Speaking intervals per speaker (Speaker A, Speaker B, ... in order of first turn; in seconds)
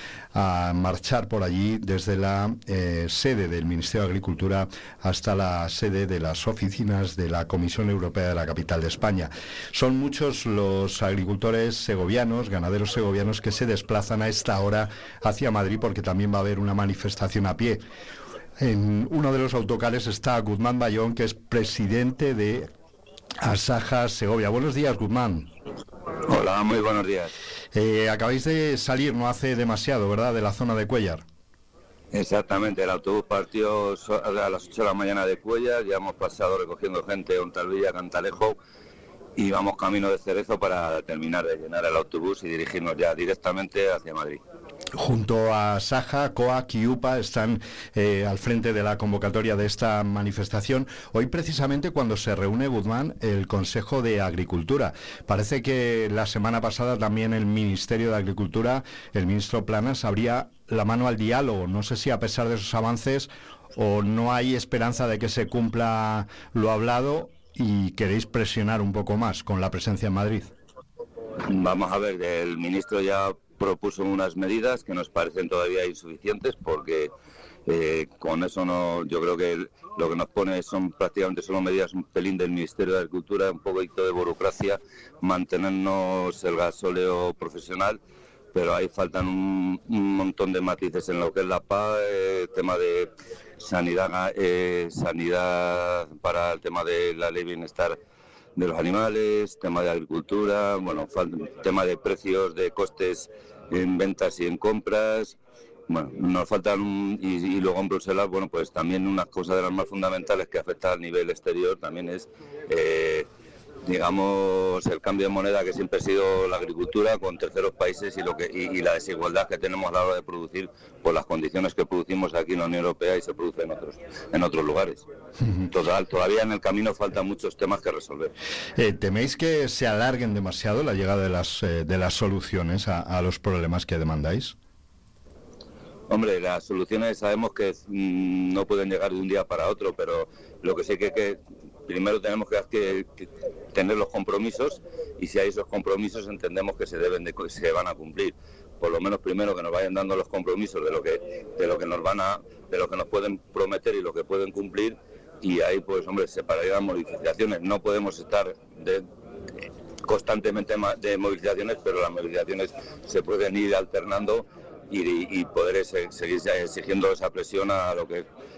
Speaker A: 0.3-17.8, 18.6-22.7, 23.4-25.5, 27.8-31.2, 45.0-70.5, 128.8-134.6
Speaker B: 26.3-27.3, 32.1-38.6, 39.4-44.4, 71.5-77.1, 77.7-88.0, 88.5-98.0, 98.6-105.4, 105.9-113.3, 113.9-125.0, 125.7-128.3, 136.1-159.1, 160.1-168.2